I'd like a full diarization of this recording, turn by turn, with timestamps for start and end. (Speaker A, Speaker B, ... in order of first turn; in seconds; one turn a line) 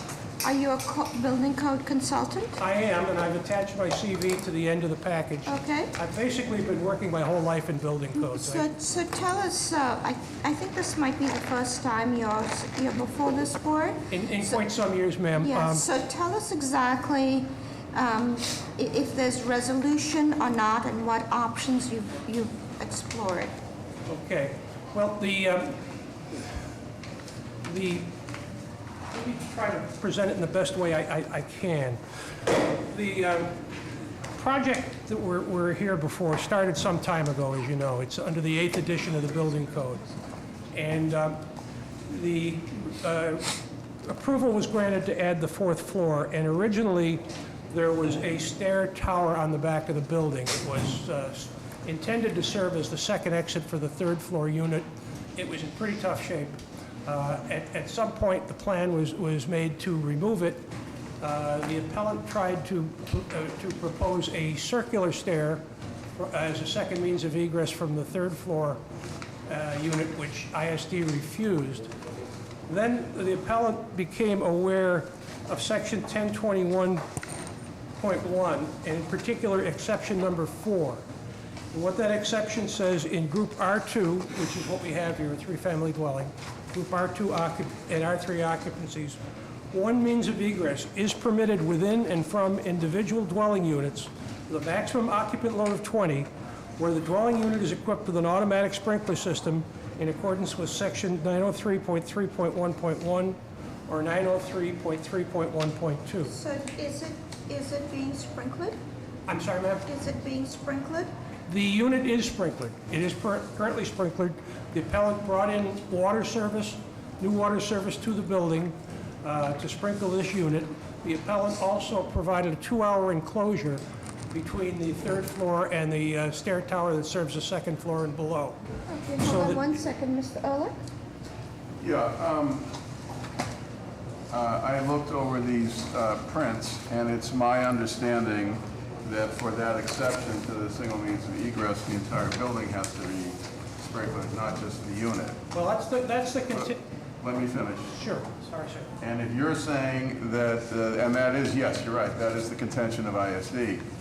Speaker A: 0.4-2.6
Speaker B: 2.6-8.7
Speaker A: 5.5-5.9
Speaker A: 8.2-14.7
Speaker B: 14.1-15.8
Speaker A: 15.4-23.5
Speaker B: 24.1-26.6
Speaker B: 27.6-28.1
Speaker B: 29.1-33.6
Speaker B: 34.3-40.1
Speaker B: 40.7-41.4
Speaker B: 42.0-43.5
Speaker B: 44.0-60.7
Speaker B: 61.2-65.6
Speaker B: 66.2-68.8
Speaker B: 69.5-71.9
Speaker B: 72.7-77.0
Speaker B: 78.0-81.0
Speaker B: 81.7-89.2
Speaker B: 89.7-96.3
Speaker B: 96.8-106.3
Speaker A: 106.3-108.8
Speaker B: 109.3-109.8
Speaker A: 109.8-111.1
Speaker B: 111.5-128.6
Speaker A: 128.9-130.8
Speaker B: 129.2-129.6
Speaker C: 131.8-132.7
Speaker C: 134.3-145.4
Speaker B: 145.5-146.8
Speaker C: 146.5-148.0
Speaker B: 147.9-148.9
Speaker C: 149.0-153.8